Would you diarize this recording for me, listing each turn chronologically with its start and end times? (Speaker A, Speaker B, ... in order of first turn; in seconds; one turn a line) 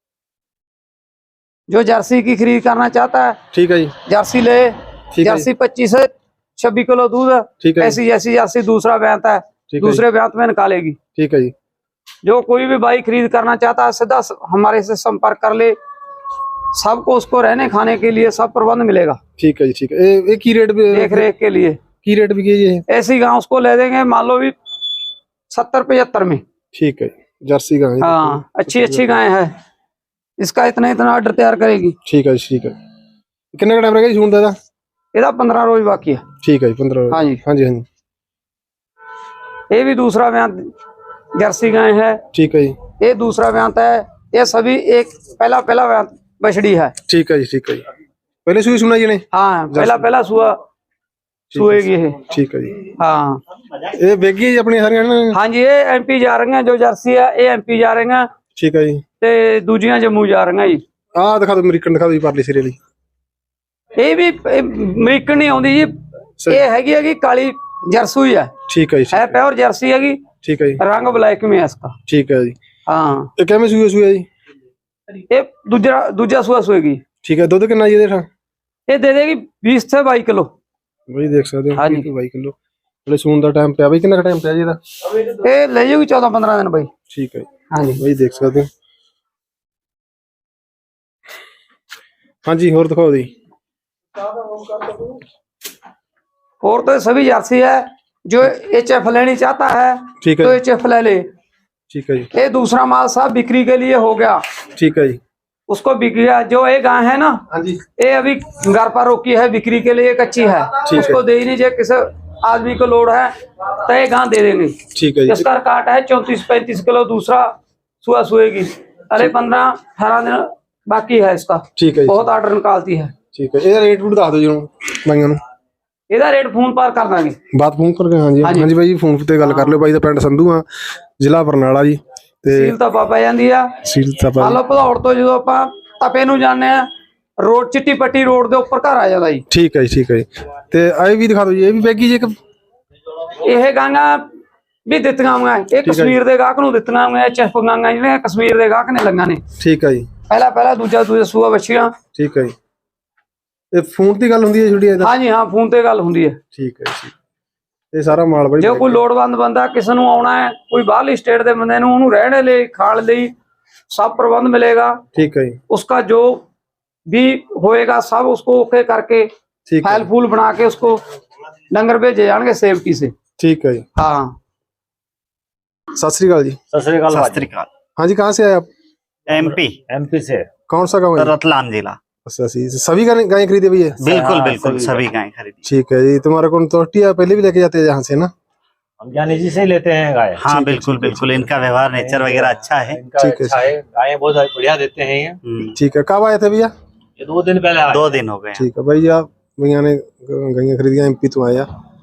Speaker A: 1.7-3.4
Speaker B: 3.5-3.9
Speaker A: 4.0-11.0
Speaker B: 5.1-5.5
Speaker B: 7.6-8.0
Speaker B: 9.7-10.0
Speaker B: 11.2-11.5
Speaker A: 12.2-15.8
Speaker A: 16.7-19.2
Speaker B: 19.4-21.3
Speaker A: 20.9-21.8
Speaker B: 22.0-22.8
Speaker A: 22.9-24.5
Speaker A: 25.5-26.4
Speaker B: 26.7-29.2
Speaker A: 28.0-29.5
Speaker A: 30.4-31.9
Speaker B: 32.0-32.7
Speaker B: 33.5-34.5
Speaker A: 35.1-36.2
Speaker B: 36.4-37.9
Speaker A: 37.1-37.4
Speaker A: 39.7-40.7
Speaker A: 41.4-42.2
Speaker B: 42.3-42.8
Speaker A: 43.0-46.9
Speaker B: 47.1-47.8
Speaker B: 48.4-50.0
Speaker A: 49.3-50.6
Speaker B: 51.5-52.9
Speaker A: 51.5-52.2
Speaker A: 53.0-53.4
Speaker B: 53.9-55.4
Speaker A: 55.3-58.3
Speaker B: 58.5-59.0
Speaker A: 59.2-60.8
Speaker B: 61.1-62.8
Speaker A: 64.0-65.9
Speaker A: 66.5-68.5
Speaker B: 68.7-69.3
Speaker A: 69.1-70.2
Speaker B: 70.4-70.8
Speaker A: 70.8-71.9
Speaker B: 72.1-72.6
Speaker A: 72.8-73.3
Speaker B: 73.4-74.2
Speaker A: 75.3-77.0
Speaker B: 77.2-78.2
Speaker A: 78.9-80.5
Speaker B: 81.1-84.8
Speaker A: 81.8-82.0
Speaker A: 85.1-86.9
Speaker B: 87.1-88.7
Speaker A: 87.7-88.0
Speaker B: 92.4-93.3
Speaker A: 96.6-101.2
Speaker B: 100.2-100.6
Speaker B: 101.9-102.3
Speaker A: 102.3-104.4
Speaker B: 104.7-105.2
Speaker A: 105.7-107.4
Speaker B: 107.5-107.8
Speaker A: 108.0-114.8
Speaker B: 110.8-111.2
Speaker B: 114.9-115.5
Speaker A: 115.3-117.5
Speaker A: 118.0-123.1
Speaker B: 121.8-122.2
Speaker B: 123.3-125.4
Speaker A: 126.1-127.4
Speaker B: 127.5-130.7
Speaker A: 128.4-128.7
Speaker A: 129.4-129.8
Speaker B: 131.2-132.7
Speaker A: 132.5-133.7
Speaker B: 133.8-134.6
Speaker A: 134.4-136.9
Speaker A: 137.4-139.4
Speaker B: 139.5-142.3
Speaker A: 143.4-144.2
Speaker A: 144.9-149.4
Speaker B: 145.8-146.2
Speaker B: 149.6-150.1
Speaker A: 150.3-151.9
Speaker B: 152.1-152.5
Speaker B: 153.7-155.1
Speaker A: 155.0-156.4
Speaker B: 156.5-157.1
Speaker B: 157.9-159.0
Speaker A: 158.6-163.3
Speaker A: 163.9-165.0
Speaker B: 165.1-165.6
Speaker A: 165.7-166.4
Speaker A: 167.1-169.3
Speaker B: 169.7-170.1
Speaker A: 169.8-171.0
Speaker A: 171.7-173.1
Speaker B: 173.4-173.8
Speaker A: 173.9-174.3
Speaker B: 175.9-176.6
Speaker C: 176.7-177.5
Speaker D: 177.1-177.7
Speaker B: 178.0-178.7
Speaker D: 179.3-179.8
Speaker C: 179.3-180.4
Speaker B: 180.7-181.3
Speaker D: 181.2-182.0
Speaker B: 182.2-183.9
Speaker C: 184.0-185.1
Speaker D: 184.0-185.6
Speaker B: 185.7-188.3
Speaker C: 189.0-190.4
Speaker D: 190.4-193.0
Speaker B: 190.5-191.4
Speaker C: 191.9-195.4
Speaker B: 193.2-193.6
Speaker D: 195.4-195.8
Speaker B: 195.7-196.7
Speaker C: 197.2-198.2
Speaker D: 197.9-198.7
Speaker B: 198.5-201.7